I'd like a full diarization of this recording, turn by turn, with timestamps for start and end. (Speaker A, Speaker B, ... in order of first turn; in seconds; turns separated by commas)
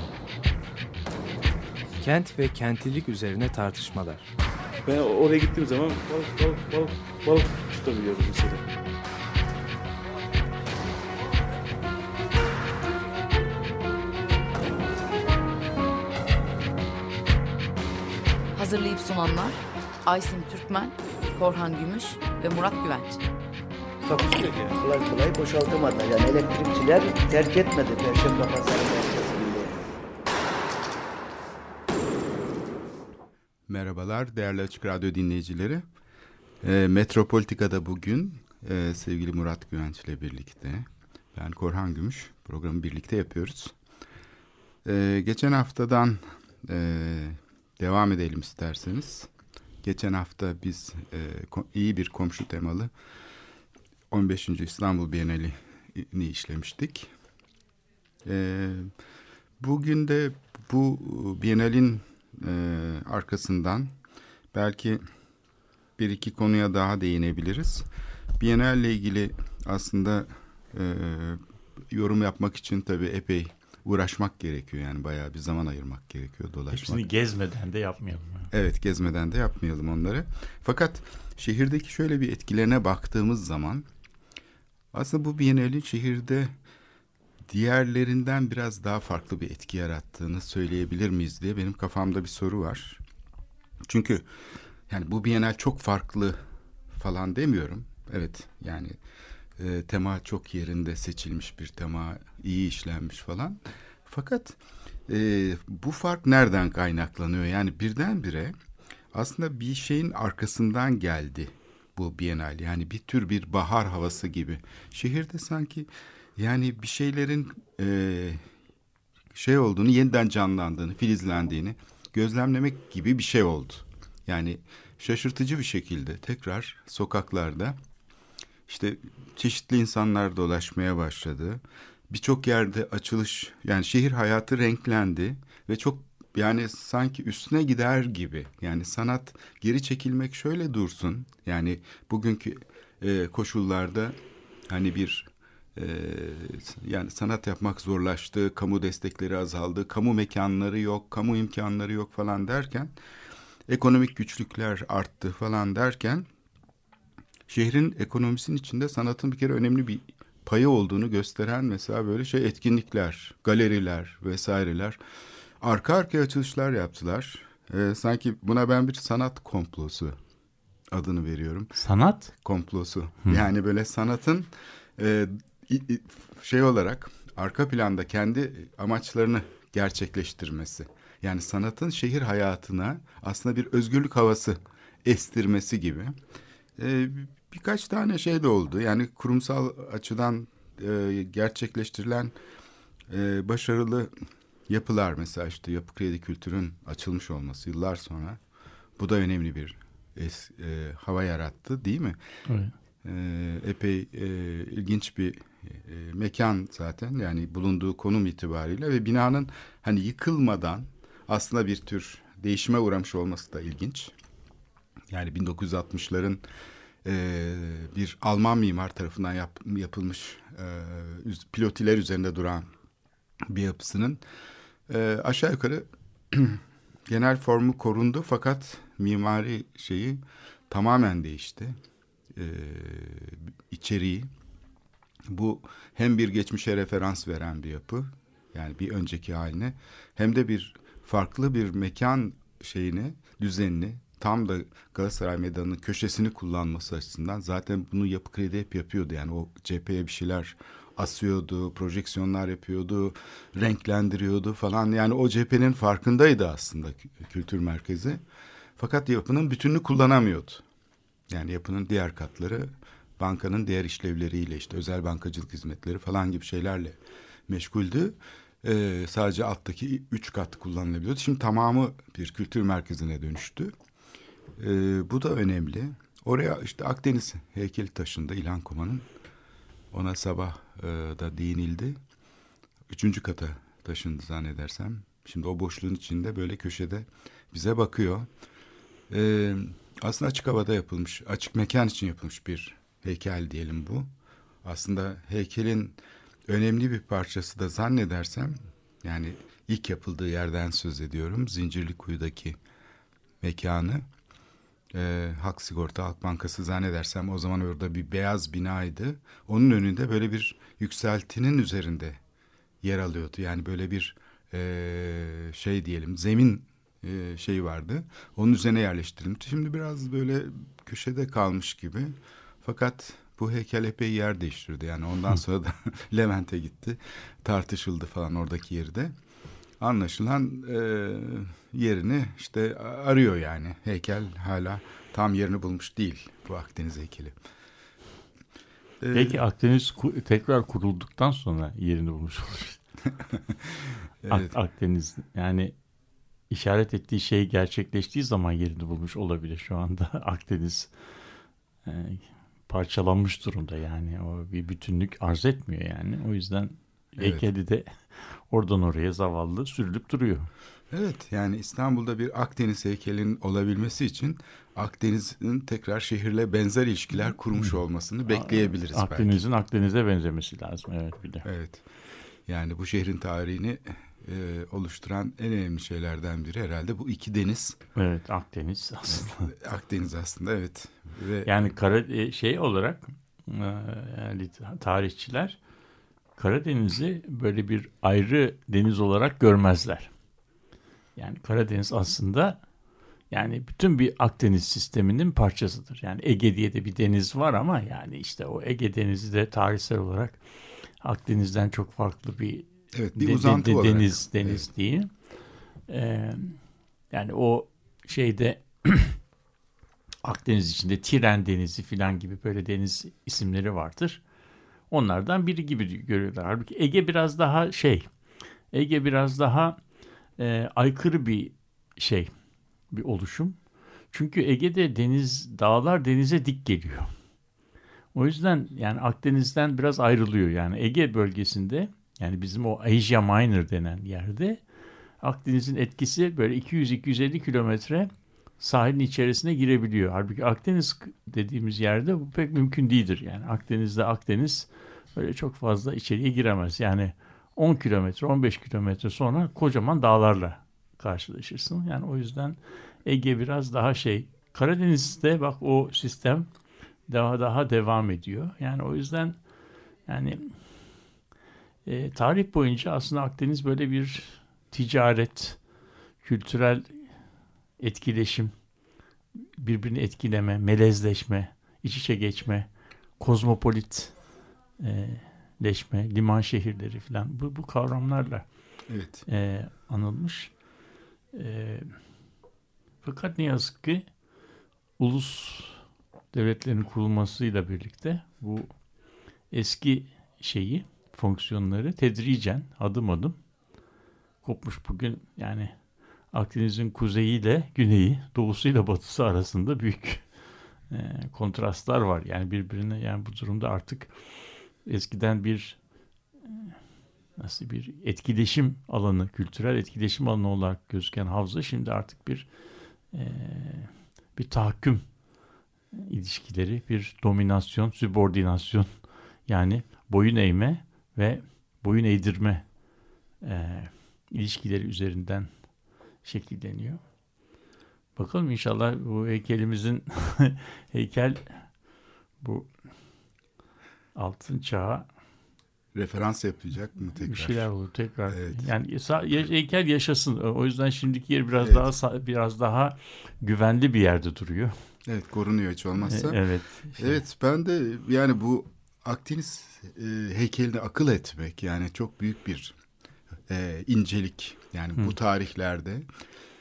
Speaker A: 2.0-4.3, Speaker B: 4.8-8.6, Speaker C: 18.5-23.2, Speaker B: 24.0-24.7, Speaker D: 24.7-29.9, Speaker E: 33.7-35.8, Speaker E: 36.6-43.7, Speaker E: 44.8-49.3, Speaker E: 49.8-52.9, Speaker E: 54.1-57.1, Speaker E: 58.2-58.9, Speaker E: 59.6-63.9, Speaker E: 64.5-65.0, Speaker E: 66.0-67.9, Speaker E: 68.4-77.0, Speaker F: 76.7-78.5, Speaker E: 78.5-83.8, Speaker E: 84.9-86.5, Speaker E: 87.5-93.0, Speaker E: 93.9-94.2, Speaker E: 94.9-96.4, Speaker E: 96.9-98.9, Speaker E: 99.6-108.5, Speaker E: 109.1-118.4, Speaker E: 119.3-127.8, Speaker E: 128.7-144.2, Speaker E: 144.7-152.9, Speaker E: 153.7-156.3, Speaker E: 157.5-165.0, Speaker E: 165.6-170.2, Speaker E: 170.9-171.8, Speaker F: 171.8-172.3, Speaker E: 172.3-186.1, Speaker E: 186.8-192.3, Speaker E: 193.1-194.1, Speaker E: 194.7-198.4, Speaker E: 199.0-202.2, Speaker E: 203.0-214.1, Speaker E: 215.1-216.4, Speaker E: 217.0-222.7, Speaker E: 223.5-224.2, Speaker E: 224.9-231.7, Speaker E: 232.3-234.3, Speaker E: 235.3-258.2, Speaker E: 258.8-260.6, Speaker E: 261.3-273.7, Speaker E: 274.6-279.1, Speaker E: 279.9-282.0, Speaker E: 282.9-288.3, Speaker E: 289.1-294.1, Speaker E: 294.6-296.0, Speaker E: 296.5-302.6, Speaker E: 303.4-304.1, Speaker E: 304.9-312.2, Speaker E: 312.8-329.1, Speaker E: 329.8-337.3, Speaker E: 339.0-339.4, Speaker F: 339.1-342.8, Speaker E: 343.3-344.5, Speaker F: 344.3-345.7, Speaker F: 346.5-350.9, Speaker F: 351.9-360.5, Speaker E: 357.2-357.4, Speaker E: 360.9-369.4, Speaker F: 368.3-371.4, Speaker E: 371.4-371.8, Speaker E: 372.5-377.8, Speaker F: 377.9-379.5, Speaker E: 379.1-381.7, Speaker F: 381.4-385.6, Speaker F: 386.4-390.1, Speaker F: 391.2-392.6, Speaker F: 393.3-400.4, Speaker F: 401.0-405.1, Speaker E: 402.9-404.6, Speaker F: 405.9-406.6, Speaker F: 407.1-409.2, Speaker F: 410.2-414.2, Speaker F: 414.9-418.1, Speaker F: 418.7-419.8, Speaker F: 420.4-422.3, Speaker F: 422.9-423.6, Speaker F: 424.1-427.1, Speaker F: 428.1-434.6, Speaker F: 435.2-456.5, Speaker F: 457.1-459.4, Speaker F: 460.1-460.5, Speaker F: 461.9-465.6, Speaker F: 466.2-466.9, Speaker F: 467.8-468.5, Speaker F: 469.6-472.7, Speaker F: 473.2-474.1, Speaker F: 474.8-478.4, Speaker E: 478.9-479.2, Speaker F: 479.3-480.5, Speaker F: 481.3-481.9, Speaker F: 483.0-484.0, Speaker F: 485.0-485.8, Speaker F: 486.3-488.7, Speaker F: 489.5-493.4, Speaker F: 494.4-495.7, Speaker F: 496.3-500.2, Speaker F: 500.9-504.1, Speaker F: 504.9-505.8, Speaker F: 506.4-506.8, Speaker F: 507.4-512.5, Speaker F: 513.1-515.0, Speaker F: 515.9-518.9, Speaker F: 519.5-522.6, Speaker F: 523.4-525.5, Speaker F: 526.2-527.0, Speaker F: 528.1-531.7, Speaker F: 532.4-532.7, Speaker F: 534.1-535.1, Speaker E: 535.9-537.7, Speaker F: 537.1-544.7, Speaker E: 538.3-538.7, Speaker E: 541.6-541.9, Speaker E: 545.0-546.4, Speaker F: 546.0-547.2, Speaker E: 547.0-552.8, Speaker E: 553.5-556.1